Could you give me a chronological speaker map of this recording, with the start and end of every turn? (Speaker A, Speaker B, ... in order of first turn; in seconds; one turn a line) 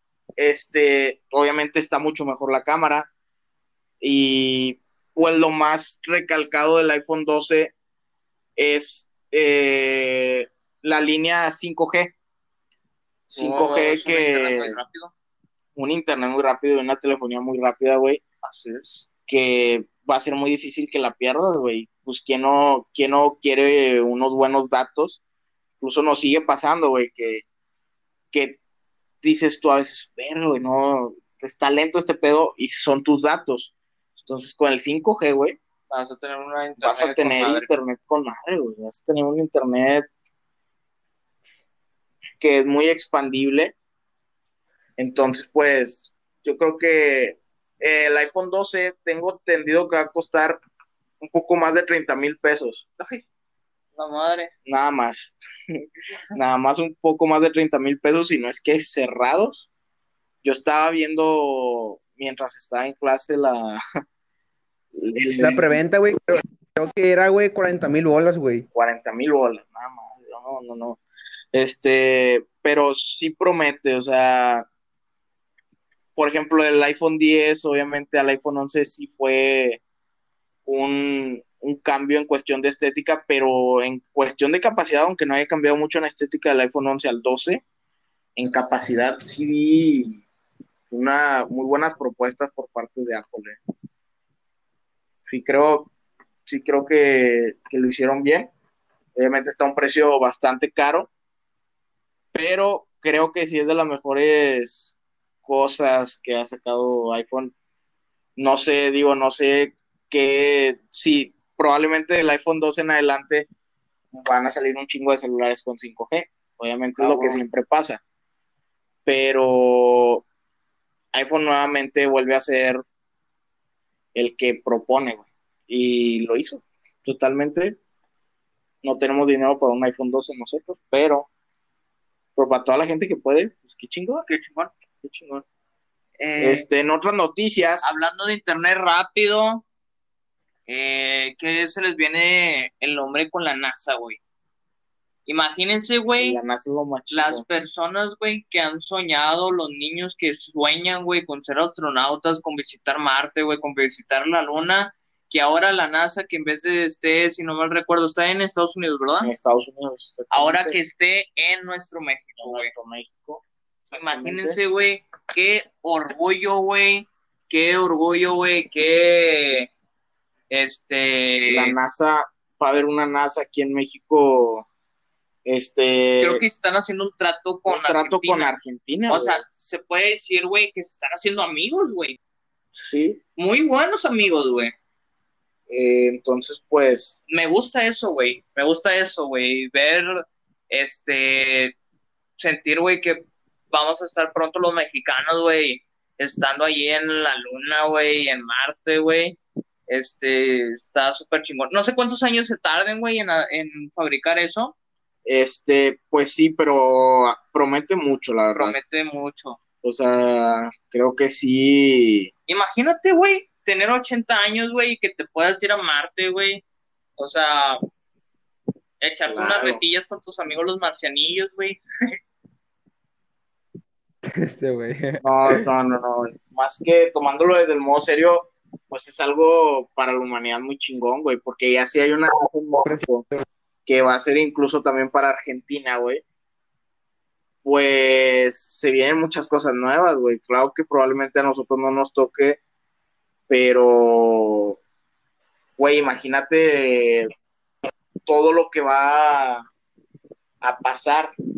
Speaker A: 0.4-3.1
Speaker A: 4.0-7.7
Speaker A: 8.6-12.1
Speaker B: 13.3-15.1
Speaker A: 13.3-14.8
Speaker A: 15.8-18.2
Speaker B: 18.4-19.1
Speaker A: 19.3-25.2
Speaker A: 25.8-27.4
Speaker A: 28.3-28.6
Speaker A: 29.2-35.6
Speaker B: 35.9-37.7
Speaker A: 36.8-40.0
Speaker A: 42.4-43.7
Speaker A: 45.0-50.6
Speaker A: 51.2-52.9
Speaker B: 53.0-53.2
Speaker B: 53.9-54.5
Speaker A: 54.6-59.7
Speaker A: 60.4-63.8
Speaker A: 65.0-65.8
Speaker C: 65.4-68.7
Speaker A: 68.7-71.0
Speaker A: 71.5-74.7
Speaker A: 76.2-79.8
Speaker A: 80.7-87.6
Speaker A: 88.3-90.2
Speaker A: 90.9-93.6
Speaker A: 95.3-95.9
Speaker A: 96.5-98.5
Speaker A: 99.1-101.1
Speaker A: 102.3-104.9
Speaker A: 105.5-107.5
Speaker A: 108.4-113.5
Speaker A: 114.1-118.0
Speaker B: 117.0-117.4
Speaker A: 119.0-120.2
Speaker A: 121.1-122.8
Speaker A: 124.1-127.8
Speaker A: 128.8-131.3
Speaker A: 132.3-134.3
Speaker B: 134.3-134.7
Speaker A: 135.0-135.4
Speaker B: 136.2-136.7
Speaker A: 136.4-137.9
Speaker B: 137.8-139.6
Speaker B: 140.7-144.2
Speaker B: 145.2-146.4
Speaker A: 146.2-147.4
Speaker B: 147.1-159.3
Speaker A: 159.2-160.8
Speaker B: 160.3-162.7
Speaker A: 162.4-164.6
Speaker B: 163.9-169.7
Speaker B: 170.5-171.8
Speaker A: 171.5-174.7
Speaker A: 175.4-176.4
Speaker B: 176.2-178.5
Speaker A: 177.7-179.4
Speaker B: 179.1-182.2
Speaker A: 182.7-183.2
Speaker B: 183.3-184.7
Speaker A: 185.7-187.2
Speaker B: 187.3-191.7
Speaker B: 192.4-204.7
Speaker A: 205.2-208.8
Speaker B: 208.5-209.6
Speaker A: 209.8-212.3
Speaker B: 212.5-216.6
Speaker B: 217.2-217.8
Speaker B: 219.0-221.8
Speaker A: 219.3-219.8
Speaker C: 224.2-225.7
Speaker A: 225.2-233.2
Speaker C: 232.8-233.4
Speaker A: 233.8-236.2
Speaker A: 237.6-242.6
Speaker A: 243.5-244.8
Speaker A: 245.8-247.3
Speaker A: 248.2-249.7
Speaker A: 250.6-251.3